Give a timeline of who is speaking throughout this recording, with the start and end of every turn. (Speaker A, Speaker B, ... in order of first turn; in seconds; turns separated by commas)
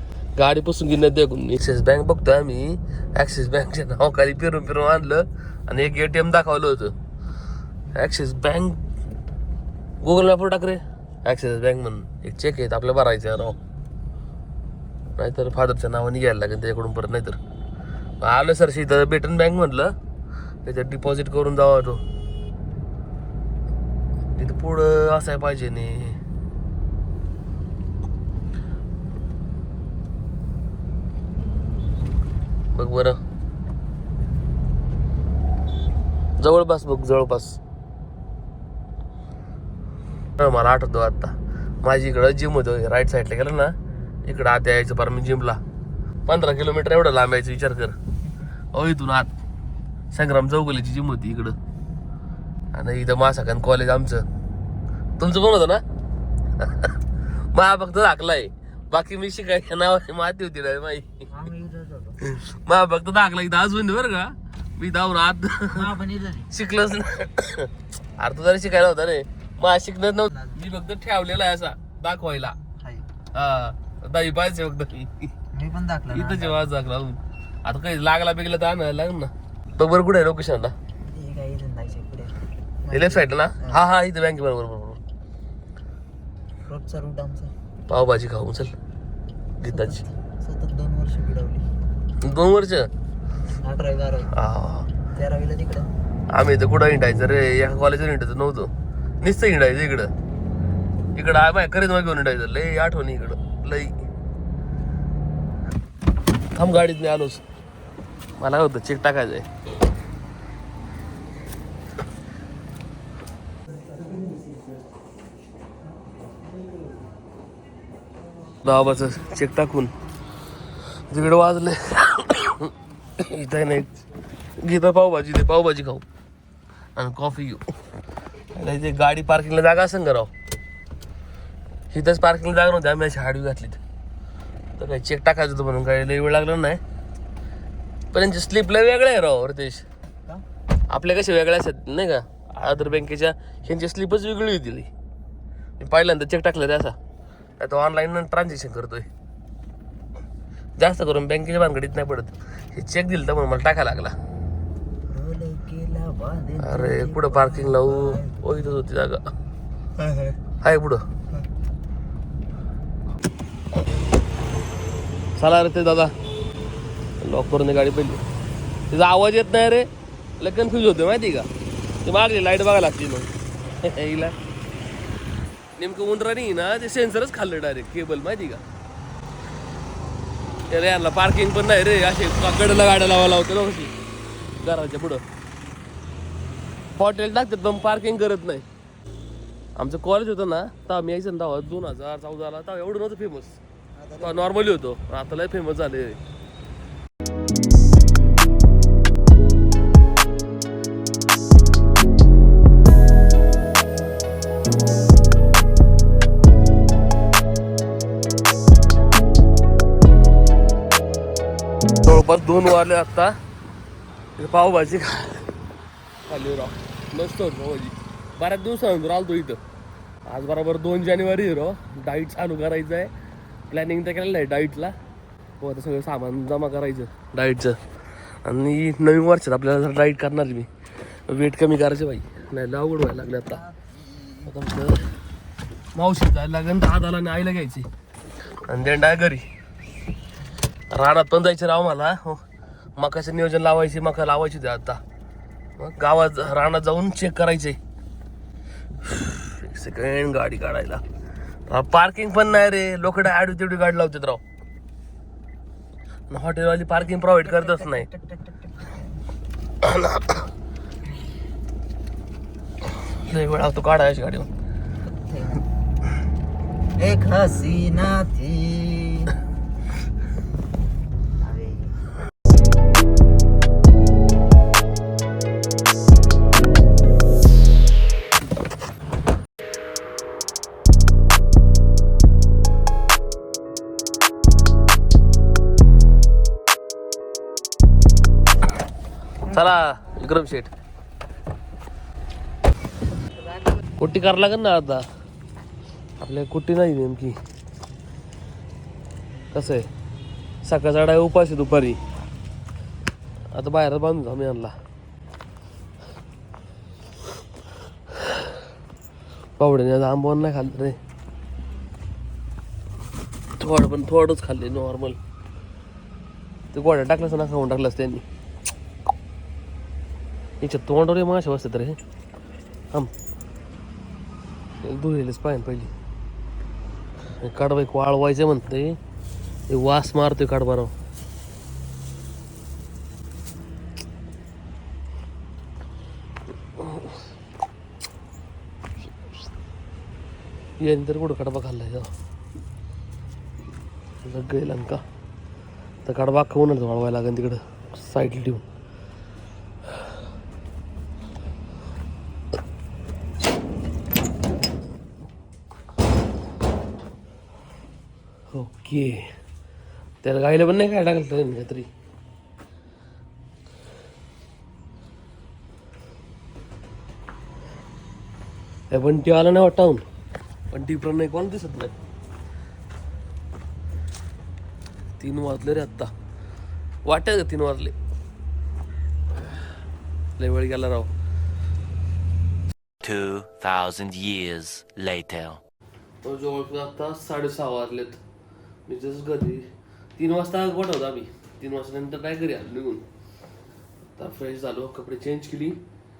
Speaker A: 0.3-6.9, Speaker A: 7.9-8.8, Speaker A: 10.0-13.6, Speaker A: 15.2-17.4, Speaker A: 18.2-19.9, Speaker A: 20.6-22.0, Speaker A: 24.4-26.2, Speaker A: 32.7-33.2, Speaker A: 36.4-37.6, Speaker A: 40.4-45.6, Speaker B: 43.9-44.1, Speaker A: 46.2-48.0, Speaker A: 48.7-49.3, Speaker A: 50.1-51.5, Speaker A: 52.7-54.2, Speaker A: 55.2-55.8, Speaker A: 56.6-57.0, Speaker A: 57.5-61.2, Speaker B: 61.3-62.2, Speaker A: 62.2-65.9, Speaker B: 65.7-66.5, Speaker A: 66.5-72.6, Speaker B: 70.3-70.6, Speaker B: 72.8-73.1, Speaker A: 73.3-75.3, Speaker B: 75.5-76.7, Speaker A: 76.1-80.7, Speaker B: 81.0-83.8, Speaker A: 82.9-85.0, Speaker B: 86.7-87.5, Speaker A: 87.9-88.7, Speaker A: 89.6-90.0, Speaker B: 89.6-91.7, Speaker A: 92.2-92.9, Speaker B: 93.4-94.3, Speaker A: 94.3-94.9, Speaker B: 95.1-95.9, Speaker A: 96.3-98.7, Speaker A: 99.2-100.1, Speaker A: 101.2-104.0, Speaker A: 106.5-107.4, Speaker A: 108.4-109.5, Speaker A: 118.6-119.9, Speaker A: 121.1-124.0, Speaker A: 124.6-126.0, Speaker A: 127.0-127.6, Speaker A: 128.5-130.3, Speaker A: 131.9-133.8, Speaker A: 134.8-136.8, Speaker A: 138.1-139.8, Speaker A: 140.9-144.9, Speaker A: 145.8-146.9, Speaker A: 147.6-149.1, Speaker A: 150.8-154.1, Speaker B: 155.1-158.5, Speaker A: 156.6-159.3, Speaker B: 160.0-160.4, Speaker A: 160.6-161.0, Speaker A: 165.4-166.1, Speaker A: 167.2-168.2, Speaker A: 168.9-169.9, Speaker A: 170.4-171.5, Speaker A: 172.0-173.3, Speaker A: 173.8-174.3, Speaker A: 175.8-178.6, Speaker A: 180.7-183.9, Speaker A: 184.6-185.2, Speaker A: 186.9-188.6, Speaker A: 189.8-193.6, Speaker B: 194.0-194.5, Speaker A: 194.2-196.2, Speaker A: 212.0-213.3, Speaker A: 214.4-215.4, Speaker A: 216.3-219.6, Speaker A: 220.3-223.1, Speaker A: 223.7-224.9, Speaker A: 225.6-227.8, Speaker A: 228.4-230.7, Speaker A: 231.3-233.6, Speaker B: 233.6-234.5, Speaker A: 234.4-235.1, Speaker A: 235.9-237.9, Speaker A: 238.7-239.4, Speaker A: 240.9-242.4, Speaker A: 243.0-245.0, Speaker A: 245.8-247.8, Speaker A: 249.0-251.0, Speaker A: 251.7-254.4, Speaker A: 256.3-258.1, Speaker B: 257.4-259.2, Speaker A: 259.8-260.4, Speaker A: 263.1-264.5, Speaker B: 265.1-265.6, Speaker B: 267.0-269.4, Speaker B: 271.4-272.0, Speaker A: 289.4-290.7, Speaker A: 294.0-295.0, Speaker A: 296.2-297.4, Speaker A: 299.5-299.9, Speaker A: 300.6-302.0, Speaker A: 303.5-304.7, Speaker A: 309.6-311.0, Speaker A: 313.6-315.2, Speaker A: 316.7-318.2, Speaker A: 320.6-322.0, Speaker A: 324.8-325.9, Speaker A: 327.4-329.0, Speaker A: 329.7-330.9, Speaker A: 336.8-337.1, Speaker A: 340.8-342.1, Speaker A: 344.2-345.0, Speaker A: 346.0-348.6, Speaker A: 358.5-359.3, Speaker A: 360.2-361.9, Speaker A: 368.9-370.0, Speaker A: 370.7-371.9, Speaker A: 375.2-376.1, Speaker A: 377.1-377.9, Speaker A: 380.4-381.1, Speaker C: 383.0-385.6, Speaker A: 386.2-388.2, Speaker A: 388.9-393.0, Speaker A: 394.2-395.8